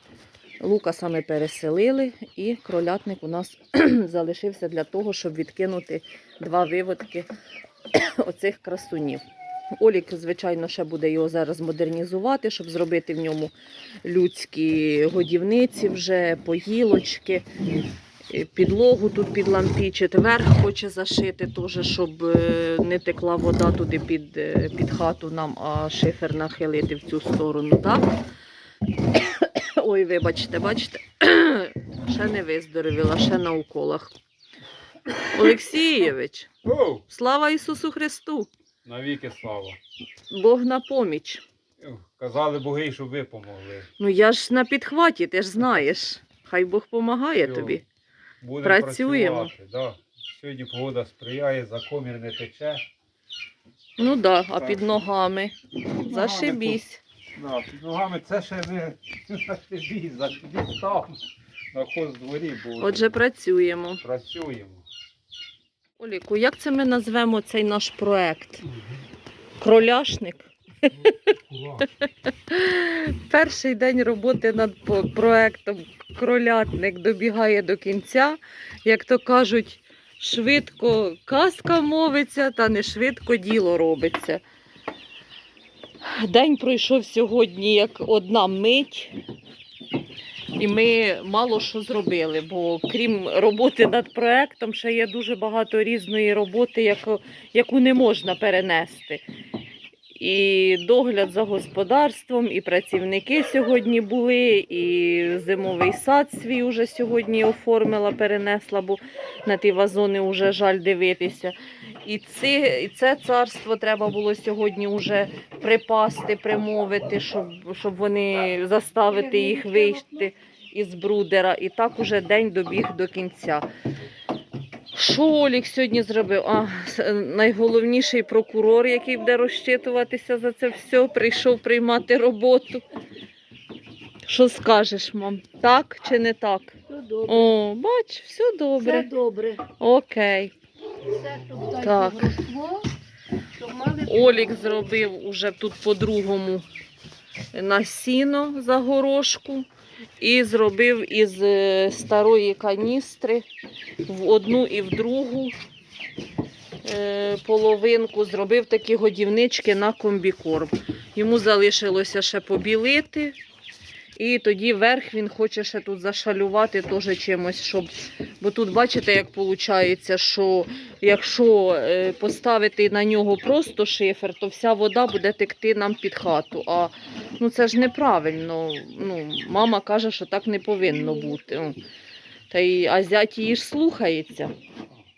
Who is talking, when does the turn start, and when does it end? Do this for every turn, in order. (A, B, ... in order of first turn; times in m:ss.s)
0:00.6-0:07.3 A
0:07.9-0:09.2 A
0:09.8-0:13.5 A
0:14.0-0:17.5 A
0:18.3-0:28.1 A
0:29.1-0:34.1 A
0:35.3-0:36.5 A
0:36.6-0:37.0 B
0:37.1-0:38.5 A
0:38.8-0:39.8 B
0:40.3-0:41.4 A
0:41.8-0:43.9 B
0:44.0-0:47.8 A
0:47.4-0:47.8 B
0:48.4-0:52.9 B
0:48.6-0:49.5 A
0:54.0-0:57.0 A
0:56.1-0:56.8 B
0:57.4-1:01.2 B
1:01.7-1:03.1 B
1:02.8-1:04.0 A
1:04.0-1:04.8 B
1:06.0-1:08.6 A
1:09.6-1:11.3 A
1:11.5-1:11.9 B
1:12.0-1:24.4 A
1:26.0-1:29.1 A
1:30.6-1:39.2 A
1:40.2-2:03.7 A
2:04.9-2:12.8 A
2:14.2-2:20.5 A
2:19.3-2:19.6 C
2:21.2-2:22.8 C
2:21.6-2:22.5 A
2:23.8-2:26.6 A
2:27.5-2:29.7 A
2:30.2-2:33.4 A
2:34.1-2:35.5 A
2:36.8-2:43.4 A
2:44.2-3:01.8 A
3:02.5-3:04.5 A